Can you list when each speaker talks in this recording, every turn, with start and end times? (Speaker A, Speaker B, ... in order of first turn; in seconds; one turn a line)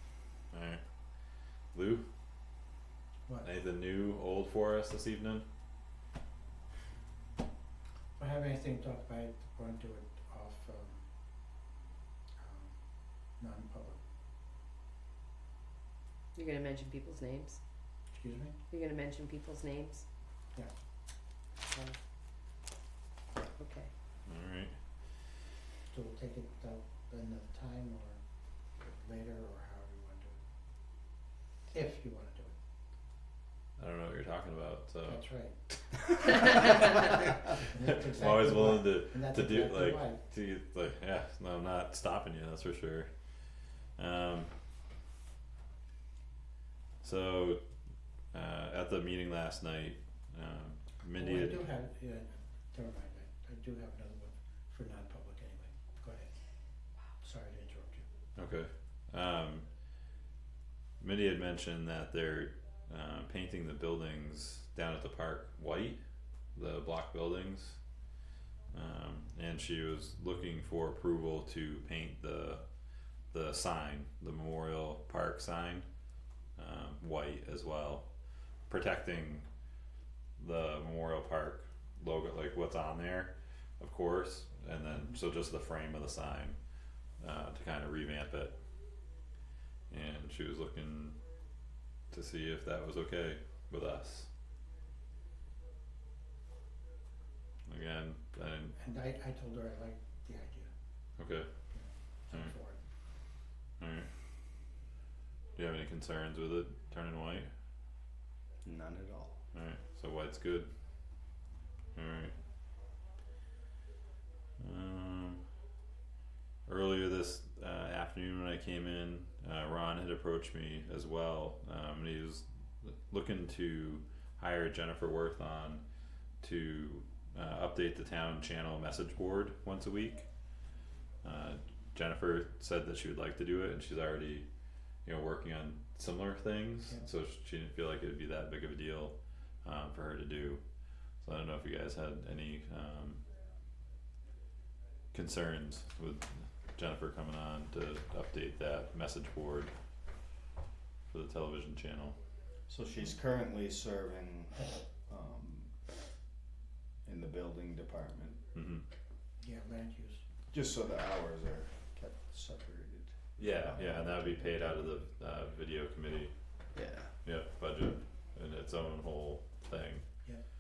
Speaker A: 0.5-0.8
Speaker A: 1.7-2.0
Speaker A: 3.4-5.4
Speaker B: 8.2-11.0
Speaker B: 12.4-12.8
Speaker B: 13.4-14.0
Speaker C: 16.4-17.6
Speaker B: 18.1-18.6
Speaker C: 18.7-20.0
Speaker C: 21.7-22.0
Speaker C: 23.6-23.9
Speaker A: 24.3-24.7
Speaker B: 25.9-28.2
Speaker B: 28.8-30.4
Speaker B: 31.7-32.5
Speaker A: 33.8-35.3
Speaker B: 35.0-35.6
Speaker A: 36.2-36.9
Speaker A: 37.5-43.1
Speaker B: 37.5-40.2
Speaker A: 44.0-44.5
Speaker A: 47.0-47.6
Speaker A: 48.3-51.7
Speaker B: 51.2-56.3
Speaker B: 57.2-58.0
Speaker A: 58.4-59.7
Speaker A: 61.0-66.0
Speaker A: 66.5-67.8
Speaker A: 68.7-72.6
Speaker A: 73.3-75.9
Speaker A: 76.6-78.1
Speaker A: 78.7-79.5
Speaker A: 80.4-86.6
Speaker A: 87.2-88.6
Speaker A: 89.9-91.2
Speaker A: 92.1-94.3
Speaker A: 97.7-98.8
Speaker B: 98.8-100.7
Speaker A: 101.2-101.5
Speaker B: 101.7-102.8
Speaker A: 103.8-104.1
Speaker A: 105.6-107.5
Speaker D: 108.6-109.3
Speaker A: 109.5-110.7
Speaker A: 112.0-112.3
Speaker A: 114.6-115.4
Speaker A: 116.7-125.8
Speaker A: 126.4-130.3
Speaker A: 131.2-134.5
Speaker A: 135.1-140.6
Speaker A: 141.2-143.2
Speaker A: 145.1-149.7
Speaker A: 151.1-152.2
Speaker D: 152.7-155.8
Speaker D: 157.0-158.4
Speaker A: 158.5-158.8
Speaker B: 159.4-160.2
Speaker D: 160.5-164.9
Speaker A: 163.4-166.3
Speaker D: 166.7-167.1
Speaker A: 167.2-170.1